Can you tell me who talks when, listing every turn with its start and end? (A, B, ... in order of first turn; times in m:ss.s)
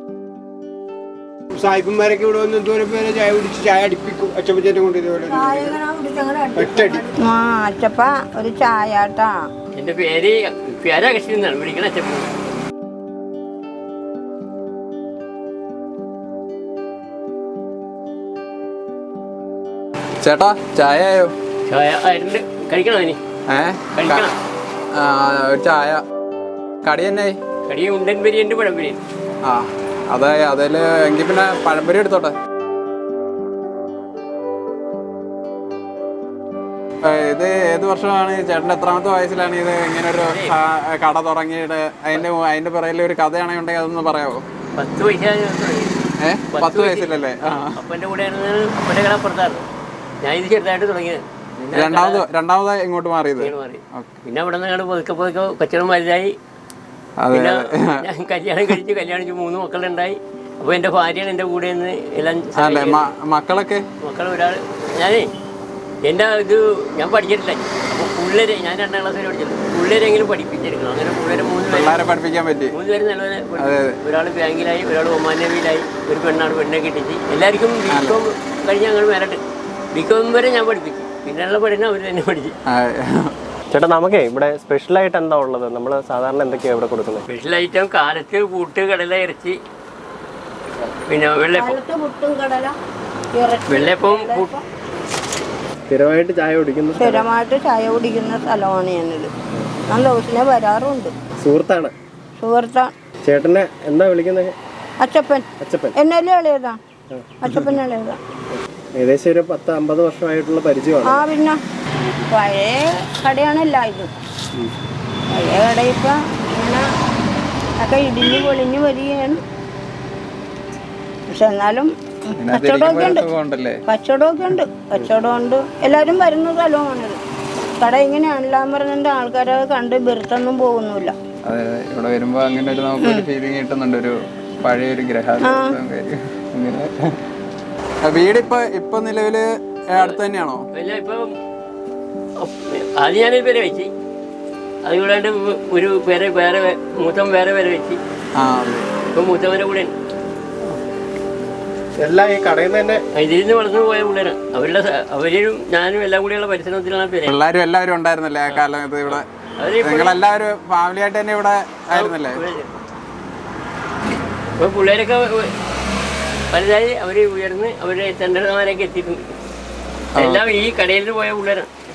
0:01.6-0:05.8 A
0:05.3-0:09.5 B
0:06.6-0:07.1 A
0:09.7-0:12.3 C
0:20.2-0:21.3 D
0:21.7-0:23.2 C
0:23.5-0:24.2 D
0:23.9-0:24.3 C
0:24.9-0:26.0 D
0:26.8-0:27.4 D
0:27.7-0:29.0 C
0:29.4-0:32.3 D
0:37.1-0:44.4 D
0:40.2-0:40.5 C
0:44.8-0:49.6 C
0:46.2-0:47.7 D
0:50.2-0:52.2 C
0:51.7-0:54.2 D
0:53.4-0:56.3 C
0:57.2-0:57.9 D
0:57.3-1:03.0 C
1:02.6-1:03.8 D
1:04.0-1:05.3 C
1:06.0-1:12.0 C
1:11.7-1:12.7 D
1:12.7-1:19.4 C
1:13.6-1:13.9 D
1:17.9-1:18.2 D
1:19.9-1:22.5 C
1:22.7-1:23.3 D
1:23.7-1:27.2 E
1:27.3-1:29.6 C
1:31.1-1:31.8 C
1:31.5-1:32.8 B
1:33.3-1:34.6 B
1:33.7-1:34.5 C
1:35.9-1:37.3 E
1:37.0-1:39.3 B
1:39.9-1:41.1 B
1:41.4-1:41.9 E
1:42.4-1:42.9 B
1:43.2-1:44.5 E
1:45.0-1:46.8 B
1:45.6-1:46.0 E
1:47.1-1:47.7 E
1:47.4-1:48.2 B
1:48.9-1:51.3 E
1:51.0-1:51.6 B
1:52.0-1:52.3 E
1:52.3-1:54.1 B
1:55.3-1:56.8 B
1:57.8-1:59.4 B
2:01.3-2:03.2 B
2:02.4-2:03.8 D
2:03.9-2:07.2 B
2:07.8-2:11.1 B
2:11.4-2:16.9 D
2:13.0-2:13.2 B
2:15.4-2:15.7 B
2:18.0-2:20.6 D
2:20.7-2:21.3 C
2:22.4-2:23.9 C
2:24.8-2:28.0 C
2:28.4-2:28.8 D
2:29.0-2:29.9 C
2:32.0-2:33.0 E
2:33.1-2:37.4 C
2:37.3-2:39.2 D
2:38.5-2:40.2 C
2:39.8-2:42.4 D
2:41.9-2:42.7 C
2:44.6-2:45.5 C
2:46.5-2:49.2 C
2:50.2-2:50.4 D
2:50.2-2:51.7 C